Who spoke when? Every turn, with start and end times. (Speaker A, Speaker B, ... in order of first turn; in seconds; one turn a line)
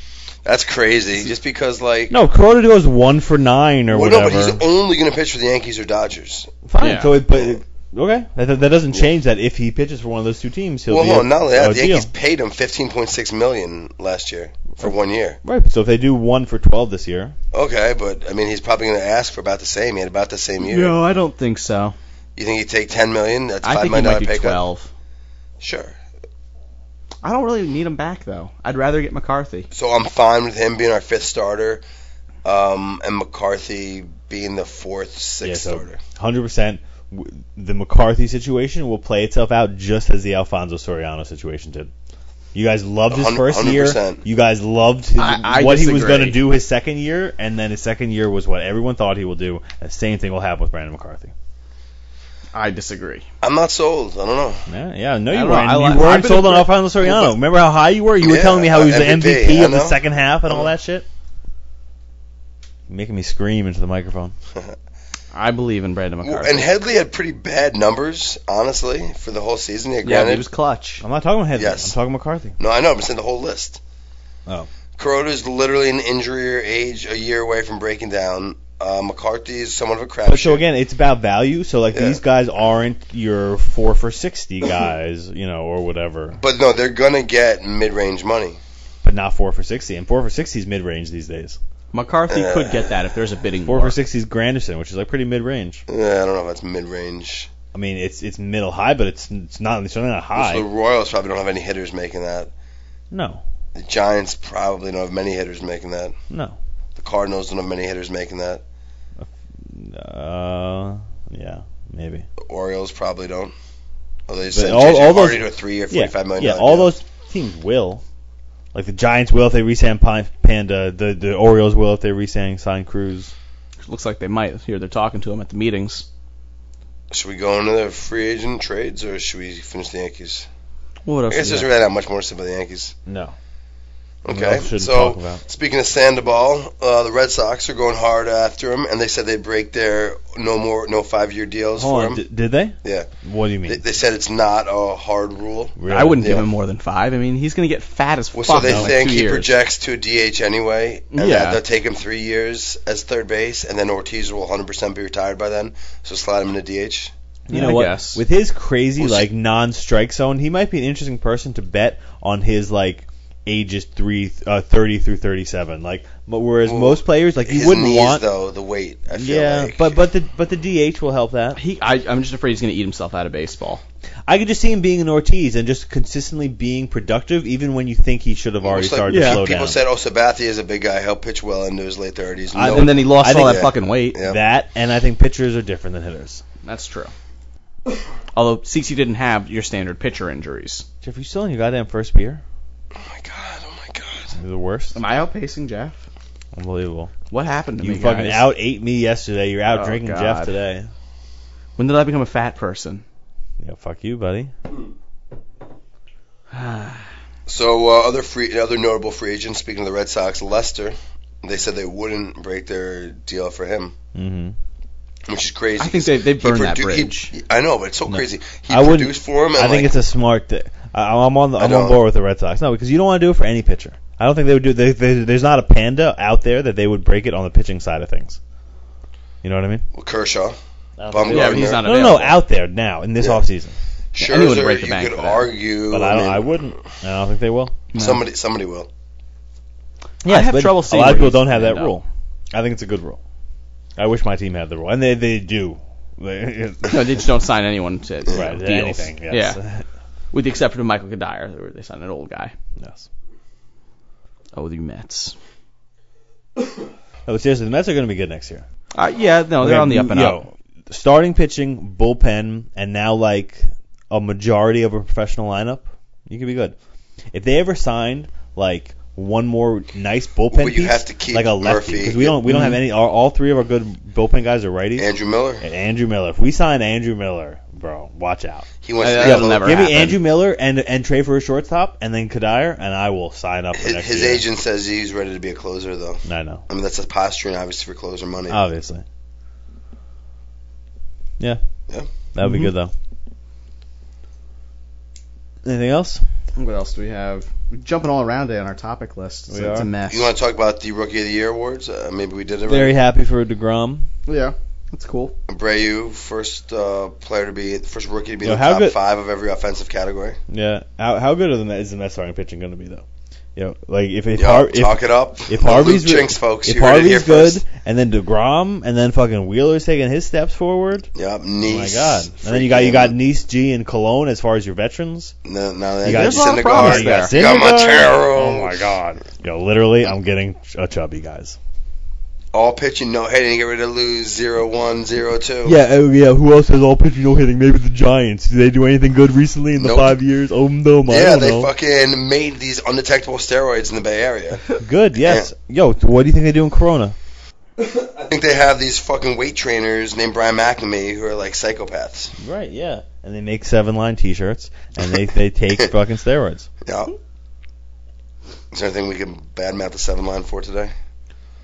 Speaker A: 0.5-2.2
Speaker B: 2.1-4.6
Speaker A: 3.9-6.5
Speaker B: 6.7-12.1
Speaker C: 6.8-7.1
Speaker A: 10.9-15.4
Speaker B: 15.4-17.4
Speaker A: 17.5-21.0
Speaker C: 20.6-21.9
Speaker A: 22.4-24.6
Speaker C: 23.6-24.9
Speaker A: 25.6-25.9
Speaker C: 27.2-29.7
Speaker A: 29.7-31.8
Speaker A: 32.4-36.0
Speaker B: 35.4-41.9
Speaker B: 42.5-51.3
Speaker A: 43.1-44.2
Speaker C: 45.2-46.4
Speaker C: 52.5-53.3
Speaker A: 53.4-54.6
Speaker B: 54.7-61.1
Speaker C: 55.3-56.8
Speaker A: 58.2-60.0
Speaker B: 62.9-64.3
Speaker C: 65.3-66.7
Speaker A: 66.2-70.5
Speaker C: 70.0-71.0
Speaker B: 71.0-72.6
Speaker A: 71.5-71.9
Speaker A: 72.6-73.8
Speaker A: 75.0-80.6
Speaker B: 80.3-86.4
Speaker A: 81.9-82.2
Speaker A: 86.4-88.6
Speaker B: 89.0-91.6
Speaker C: 91.9-94.0
Speaker A: 92.3-92.9
Speaker B: 93.6-95.8
Speaker A: 95.9-97.5
Speaker B: 97.7-100.7
Speaker A: 100.3-102.5
Speaker B: 103.1-103.4
Speaker A: 103.8-106.2
Speaker B: 106.3-106.6
Speaker A: 107.0-108.6
Speaker B: 109.2-112.3
Speaker A: 112.4-113.5
Speaker A: 114.3-116.9
Speaker B: 114.5-118.0
Speaker B: 118.7-123.3
Speaker C: 123.8-126.1
Speaker A: 127.1-130.5
Speaker C: 131.1-131.7
Speaker A: 131.3-132.9
Speaker B: 133.1-133.3
Speaker A: 134.2-142.2
Speaker B: 134.3-135.4
Speaker B: 141.8-143.8
Speaker A: 142.8-143.1
Speaker A: 143.7-146.5
Speaker B: 145.8-146.4
Speaker C: 145.9-149.5
Speaker A: 148.3-157.1
Speaker B: 148.6-148.9
Speaker C: 151.1-151.6
Speaker B: 157.5-168.2
Speaker C: 157.5-158.2
Speaker A: 159.0-159.3
Speaker A: 166.7-169.9
Speaker B: 169.2-171.6
Speaker C: 171.6-173.8
Speaker B: 174.3-179.8
Speaker A: 178.6-184.4
Speaker C: 179.1-179.4
Speaker B: 182.5-183.6
Speaker C: 182.7-184.2
Speaker B: 184.2-186.4
Speaker C: 186.6-187.1
Speaker C: 188.3-190.9
Speaker B: 191.0-192.4
Speaker A: 192.9-194.3
Speaker B: 194.4-195.0
Speaker C: 194.9-196.0
Speaker B: 196.6-197.1
Speaker C: 197.3-198.5
Speaker B: 197.8-200.9
Speaker C: 199.7-200.5
Speaker C: 201.8-203.0
Speaker B: 203.6-204.5
Speaker C: 206.5-207.1
Speaker A: 207.5-213.9
Speaker B: 214.2-214.6
Speaker A: 215.3-219.9
Speaker C: 215.8-217.3
Speaker B: 218.1-228.4
Speaker A: 221.6-222.0
Speaker B: 229.4-229.8
Speaker A: 229.9-230.6
Speaker B: 231.0-233.8
Speaker A: 231.1-231.8
Speaker C: 231.3-232.4
Speaker A: 234.1-236.4
Speaker C: 234.2-235.5
Speaker B: 235.9-237.8
Speaker C: 237.9-238.2
Speaker A: 237.9-238.9
Speaker B: 240.2-243.2
Speaker C: 240.3-241.9
Speaker B: 244.0-247.2
Speaker C: 246.9-249.6
Speaker B: 248.3-249.8
Speaker C: 250.3-252.5
Speaker B: 252.8-253.1
Speaker C: 254.5-255.3
Speaker B: 257.3-258.6
Speaker C: 259.0-260.4
Speaker B: 259.6-266.8
Speaker B: 267.3-275.1
Speaker A: 270.5-272.4
Speaker C: 272.5-272.8
Speaker A: 275.0-275.6
Speaker B: 275.6-278.7
Speaker A: 278.8-279.8
Speaker C: 279.0-280.2
Speaker B: 279.2-284.4
Speaker A: 283.8-288.6
Speaker B: 286.2-286.6
Speaker B: 288.5-289.0
Speaker B: 292.4-292.9
Speaker C: 292.4-292.7
Speaker B: 295.6-296.2
Speaker C: 296.6-300.3
Speaker B: 299.5-299.9
Speaker A: 300.1-303.0
Speaker B: 302.7-304.1
Speaker C: 304.3-305.3
Speaker A: 305.5-310.4
Speaker B: 308.4-309.0
Speaker B: 310.5-321.1
Speaker A: 314.4-317.6
Speaker A: 321.1-323.1
Speaker B: 321.6-325.3
Speaker A: 325.4-328.7
Speaker B: 326.0-331.6
Speaker C: 326.1-327.4
Speaker A: 332.5-335.8
Speaker B: 335.6-341.7
Speaker A: 339.8-340.2
Speaker A: 341.1-344.7
Speaker B: 344.8-347.1
Speaker A: 347.8-352.3
Speaker B: 352.4-356.7
Speaker A: 356.8-357.1
Speaker A: 358.7-360.9